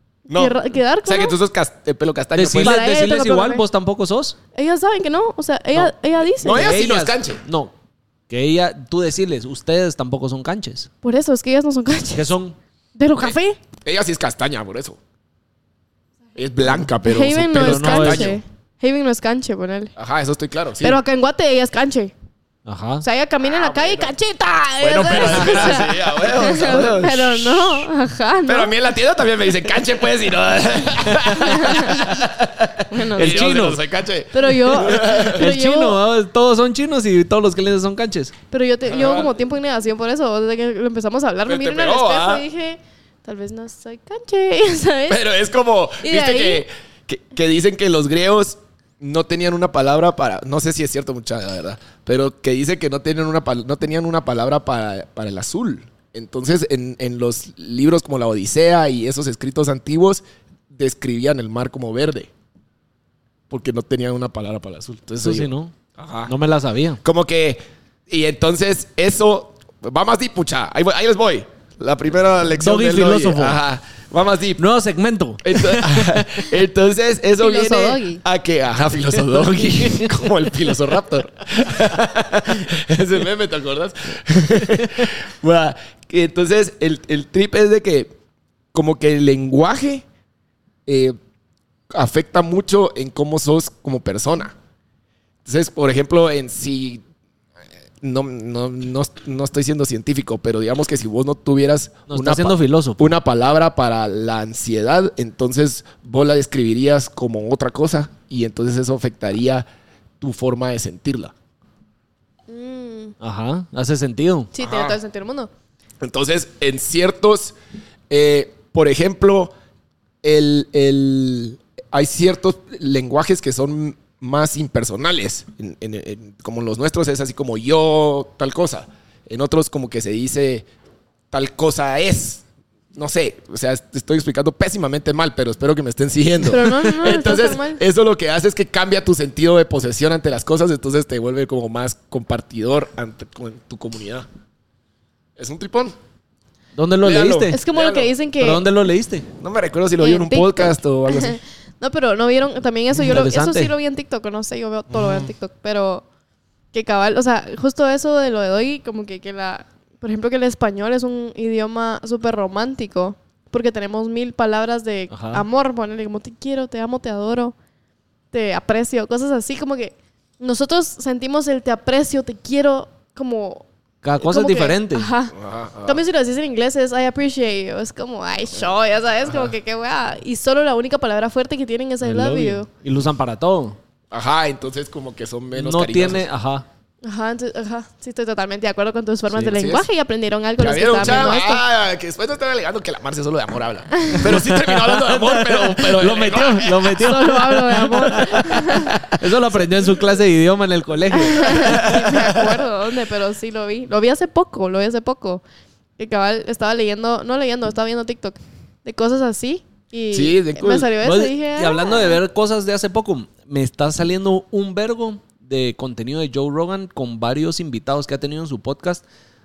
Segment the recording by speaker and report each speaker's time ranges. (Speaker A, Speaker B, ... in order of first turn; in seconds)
Speaker A: 0.3-2.8, 6.4-7.4, 13.8-15.0, 16.4-18.4, 19.9-21.0, 23.4-24.1, 24.8-27.6, 28.4-35.5, 38.9-39.3, 41.5-42.4, 45.1-62.3, 63.5-66.3, 67.0-74.6, 75.4-88.2, 88.7-90.0, 90.8-91.2, 91.9-94.5, 95.4-97.0, 98.0-109.7, 110.2-111.3, 114.6-115.0, 116.0-117.5, 118.1-119.5, 120.2-130.7, 131.3-132.4, 132.9-144.3, 145.4-145.9, 147.0-148.1, 149.4-151.4, 154.9-155.3, 175.3-176.0, 184.1-186.2, 189.3-189.9, 190.6-197.1, 198.0-199.2, 201.4-202.6, 210.1-210.9
Speaker B: 0.3-1.4, 2.5-3.6, 4.5-6.7, 11.0-12.2, 12.9-13.6, 17.0-19.9, 20.8-22.1, 23.0-28.7, 31.4-32.1, 32.9-33.6, 34.3-36.0, 38.5-45.2, 46.0-46.6, 77.4-78.2, 112.5-113.1, 114.5-115.5, 136.4-137.8, 147.5-148.6, 150.0-156.0, 156.7-167.5, 168.3-173.7, 174.2-182.7, 187.0-191.6, 196.9-198.9, 201.1-205.4, 206.0-212.2
Speaker C: 2.4-4.3, 6.4-7.7, 8.3-10.9, 12.1-12.6, 17.5-18.4, 22.6-23.0, 25.1-25.7, 33.1-33.8, 34.9-38.3, 65.2-65.7, 66.3-67.0, 72.6-73.6, 74.6-76.4, 79.3-80.2, 102.1-103.1, 113.2-114.5, 146.7-147.6, 148.4-149.2, 153.0-153.7, 165.1-165.4, 174.0-175.1, 182.0-183.8, 185.5-186.7, 191.0-191.4, 194.2-201.9, 211.0-219.0